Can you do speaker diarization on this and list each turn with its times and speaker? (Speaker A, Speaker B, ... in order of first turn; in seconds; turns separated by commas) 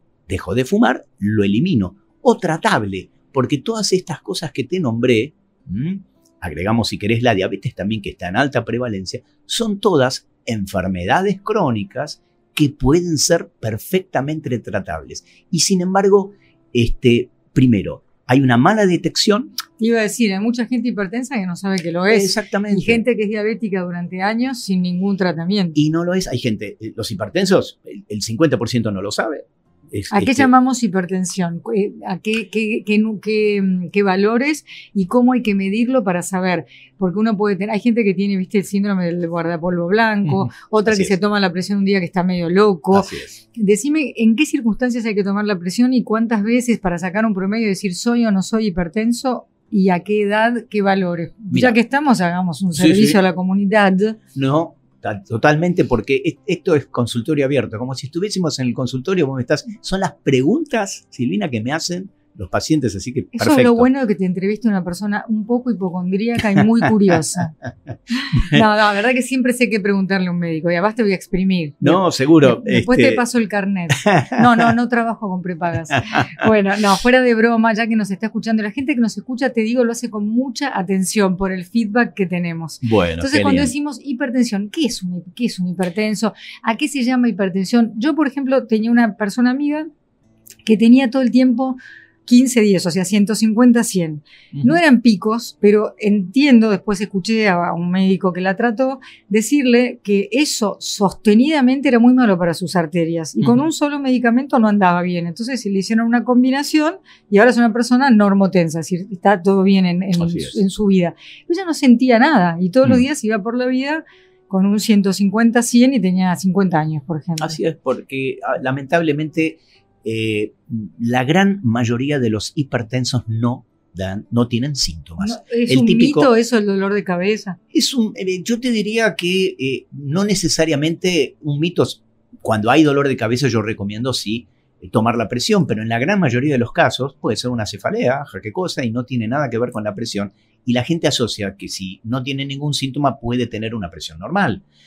Speaker A: 0.3-19.6, Speaker B: 19.8-25.8, Speaker A: 22.1-23.0, Speaker A: 25.7-30.5, Speaker B: 30.1-54.2, Speaker A: 40.2-41.1, Speaker A: 42.9-43.4, Speaker A: 51.5-51.8, Speaker A: 52.8-53.2, Speaker A: 54.3-63.9, Speaker B: 63.3-67.5, Speaker B: 68.1-89.9, Speaker A: 68.3-68.6, Speaker A: 71.8-73.2, Speaker A: 74.0-74.7, Speaker A: 82.8-83.7, Speaker B: 90.7-117.6, Speaker A: 94.5-94.8, Speaker A: 110.2-110.6, Speaker A: 117.4-126.3, Speaker B: 125.2-127.6, Speaker A: 127.7-144.6